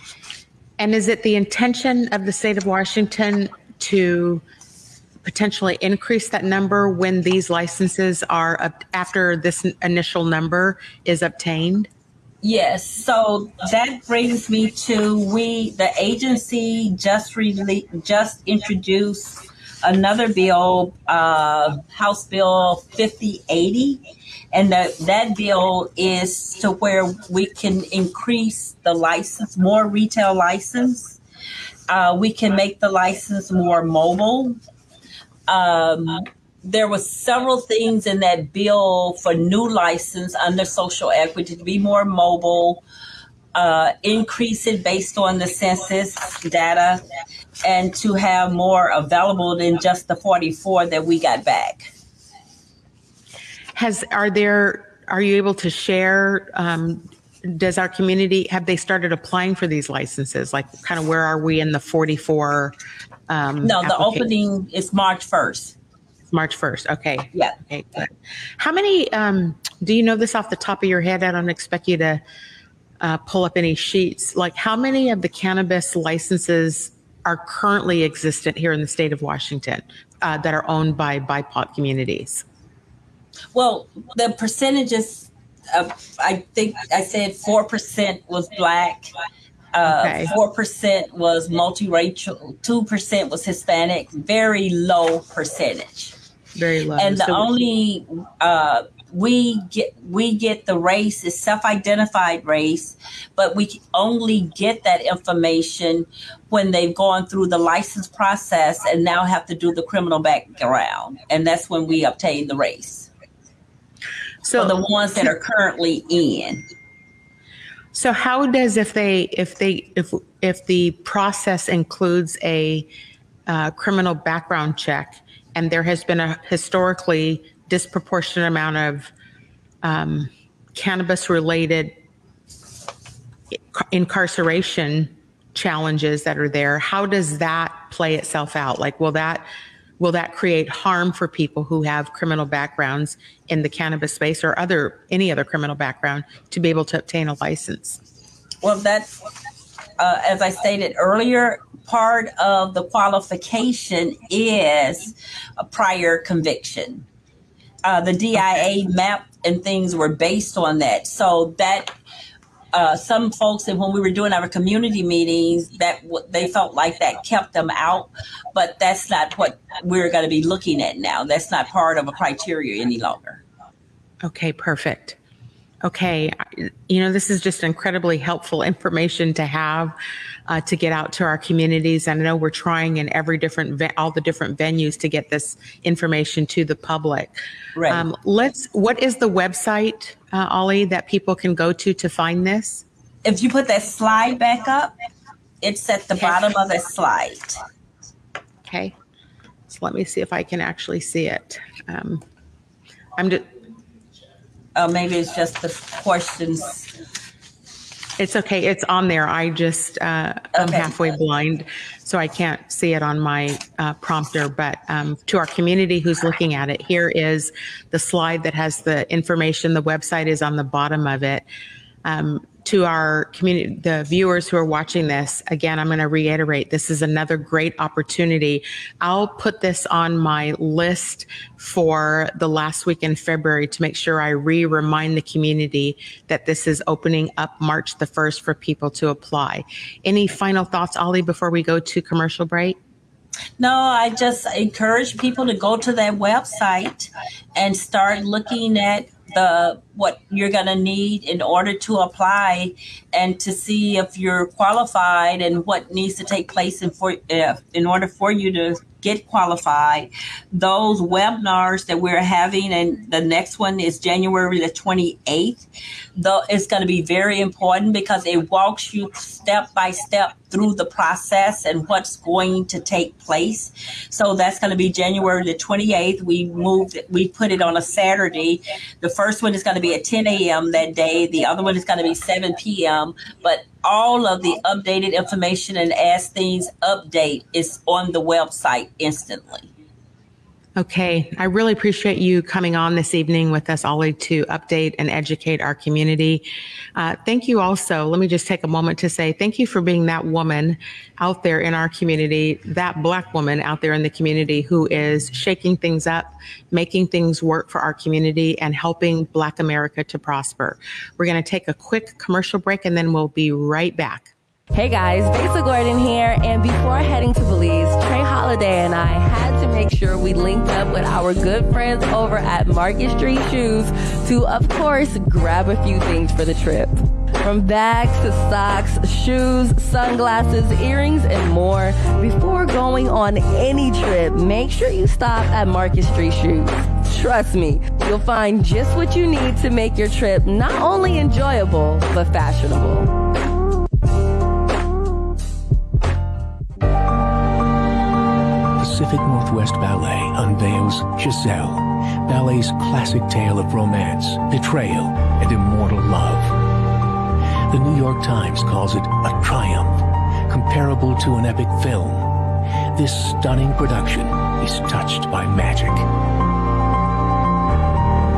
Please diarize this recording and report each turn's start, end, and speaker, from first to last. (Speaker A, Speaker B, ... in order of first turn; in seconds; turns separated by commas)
Speaker A: 0.8-4.4, Speaker A: 5.2-11.9, Speaker B: 12.4-24.0, Speaker B: 24.5-31.2, Speaker B: 31.9-34.6, Speaker B: 35.5-42.8, Speaker B: 43.5-47.0, Speaker B: 47.6-51.9, Speaker A: 53.8-62.8, Speaker A: 63.3-64.3, Speaker B: 63.6-65.8, Speaker A: 66.3-72.2, Speaker A: 73.0-82.5, Speaker B: 83.5-89.1, Speaker B: 89.7-96.2, Speaker A: 89.8-90.3, Speaker A: 96.6-97.5, Speaker B: 97.0-113.1, Speaker A: 114.4-115.3, Speaker B: 114.6-116.7, Speaker A: 117.9-122.9, Speaker A: 123.5-129.1, Speaker A: 129.8-132.0, Speaker A: 133.5-139.4, Speaker A: 140.0-148.0, Speaker B: 148.6-149.1, Speaker B: 150.0-157.1, Speaker B: 157.8-161.9, Speaker B: 162.7-173.4, Speaker A: 174.2-175.2, Speaker A: 175.8-179.9, Speaker A: 180.5-192.8, Speaker B: 187.8-188.1, Speaker B: 193.2-194.9, Speaker B: 195.6-197.6, Speaker A: 198.7-198.9, Speaker A: 199.7-202.2, Speaker A: 203.2-203.5, Speaker B: 204.8-206.9, Speaker A: 208.2-221.4, Speaker B: 210.6-211.0, Speaker A: 222.1-242.8, Speaker B: 243.6-265.6, Speaker B: 266.2-289.7, Speaker A: 290.8-296.4, Speaker A: 297.0-314.3, Speaker C: 314.7-343.1, Speaker D: 348.8-356.7, Speaker D: 357.7-366.1